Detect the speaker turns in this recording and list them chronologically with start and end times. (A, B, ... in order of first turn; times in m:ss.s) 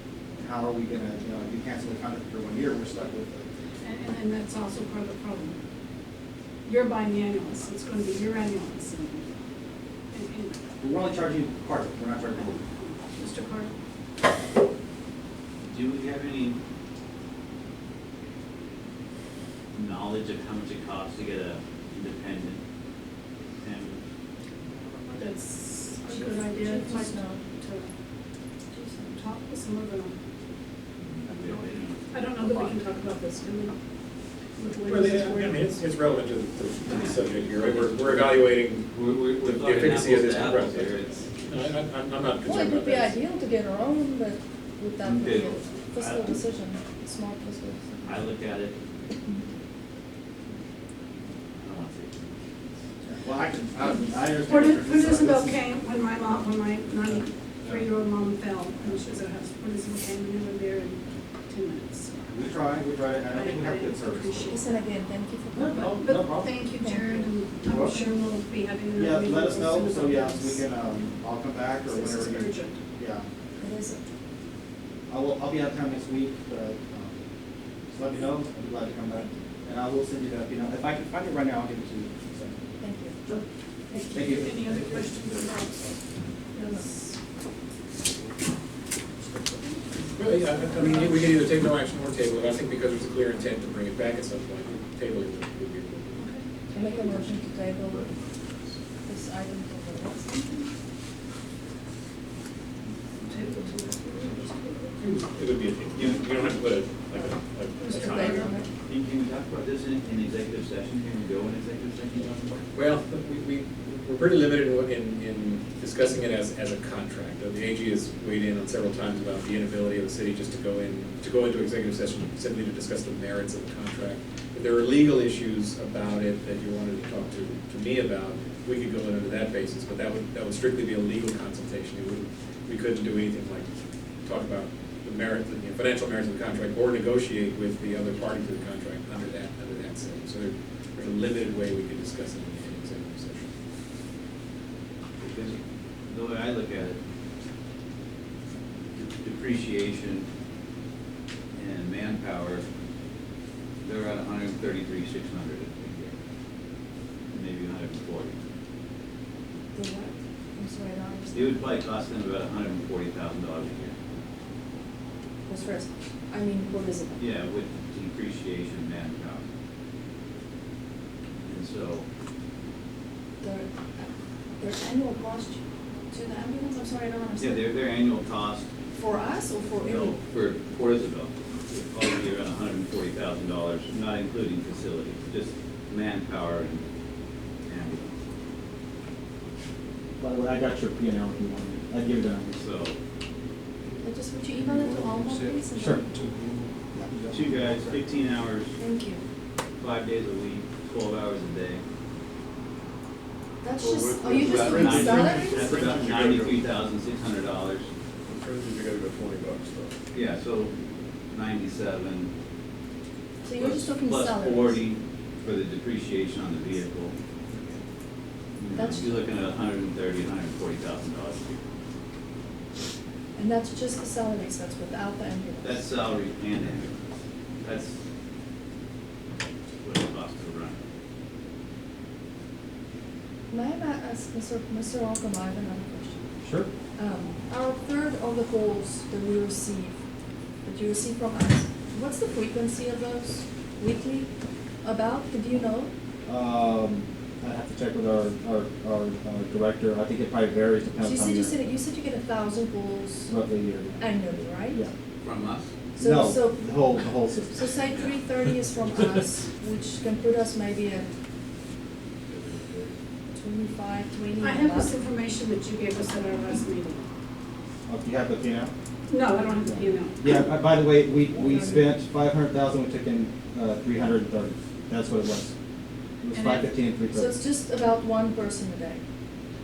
0:00.4-0:03.5 A
0:03.8-0:05.6 B
0:06.6-0:09.2 B
0:10.1-0:10.6 B
0:10.8-0:12.6 A
0:13.1-0:13.7 B
0:15.7-0:16.6 C
0:19.8-0:22.6 C
0:23.6-0:24.0 C
0:25.2-0:27.9 B
0:26.1-0:27.4 D
0:28.7-0:29.2 D
0:29.2-0:30.2 B
0:31.1-0:32.7 C
0:32.1-0:33.8 B
0:34.6-0:35.7 B
0:34.9-0:43.1 E
0:36.9-0:41.3 C
0:42.4-0:48.2 D
0:45.0-0:46.4 C
0:48.1-0:48.8 C
0:51.6-0:52.3 C
0:53.0-0:55.6 A
0:54.4-1:02.3 B
1:02.3-1:04.6 A
1:03.3-1:04.9 B
1:04.5-1:05.8 D
1:05.5-1:06.5 A
1:05.8-1:10.6 B
1:06.7-1:08.2 D
1:07.6-1:08.0 A
1:09.0-1:13.3 A
1:11.9-1:12.8 B
1:13.6-1:14.0 D
1:15.1-1:17.2 A
1:17.9-1:22.6 A
1:22.8-1:23.2 D
1:23.9-1:25.8 B
1:24.1-1:25.5 A
1:26.6-1:27.1 B
1:30.2-1:36.2 E
1:30.2-1:31.2 F
1:36.7-1:38.1 D
1:39.1-1:40.7 D
1:43.3-1:44.9 B
1:45.0-1:48.5 E
1:46.0-1:46.5 C
1:47.1-1:48.7 D
1:48.1-1:48.5 B
1:48.9-1:52.6 C
1:52.7-2:13.6 E
2:14.2-2:23.5 E
2:25.2-2:27.0 C
2:28.9-2:30.3 C
2:31.5-2:32.6 C
2:33.8-2:36.1 C
2:37.3-2:38.4 C
2:39.7-2:41.7 D
2:41.3-2:44.0 C
2:45.5-2:47.3 D
2:47.2-2:49.4 C
2:51.4-2:52.1 C
2:53.4-2:54.1 D
2:54.6-2:57.8 D
2:57.4-2:58.7 C
2:58.9-3:00.2 D
2:59.8-3:06.8 C
3:07.6-3:08.2 C
3:10.2-3:12.6 A
3:12.6-3:13.0 C
3:14.0-3:16.0 D
3:14.5-3:18.2 F
3:15.8-3:16.1 A
3:17.3-3:18.7 C
3:18.8-3:19.2 D
3:19.8-3:21.8 C
3:23.6-3:25.7 D
3:23.8-3:27.9 C
3:24.3-3:26.7 F
3:28.3-3:30.0 F
3:30.1-3:30.8 C
3:31.3-3:32.3 C
3:33.4-3:34.9 D
3:33.6-3:37.2 C
3:38.6-3:41.6 C
3:38.7-3:39.1 D
3:43.4-3:45.9 D
3:45.6-3:47.0 C
3:47.6-3:48.0 C
3:49.8-3:50.8 C
3:53.5-3:56.2 D
3:56.4-3:56.7 A
3:57.0-4:00.0 D
4:00.6-4:04.3 D
4:04.8-4:05.9 D
4:06.3-4:11.6 A
4:11.0-4:13.3 D
4:13.3-4:14.0 A
4:14.0-4:14.8 D
4:15.2-4:15.7 C
4:16.0-4:16.8 D
4:16.0-4:17.7 A
4:17.6-4:21.1 D
4:17.9-4:18.2 C
4:22.3-4:22.9 F
4:23.3-4:25.0 D
4:24.4-4:27.1 B
4:27.9-4:28.7 A
4:29.1-4:30.2 B
4:29.6-4:35.5 A
4:31.3-4:31.7 F
4:31.5-4:31.7 D
4:36.2-4:37.4 A
4:36.3-4:36.6 B
4:37.1-4:39.0 D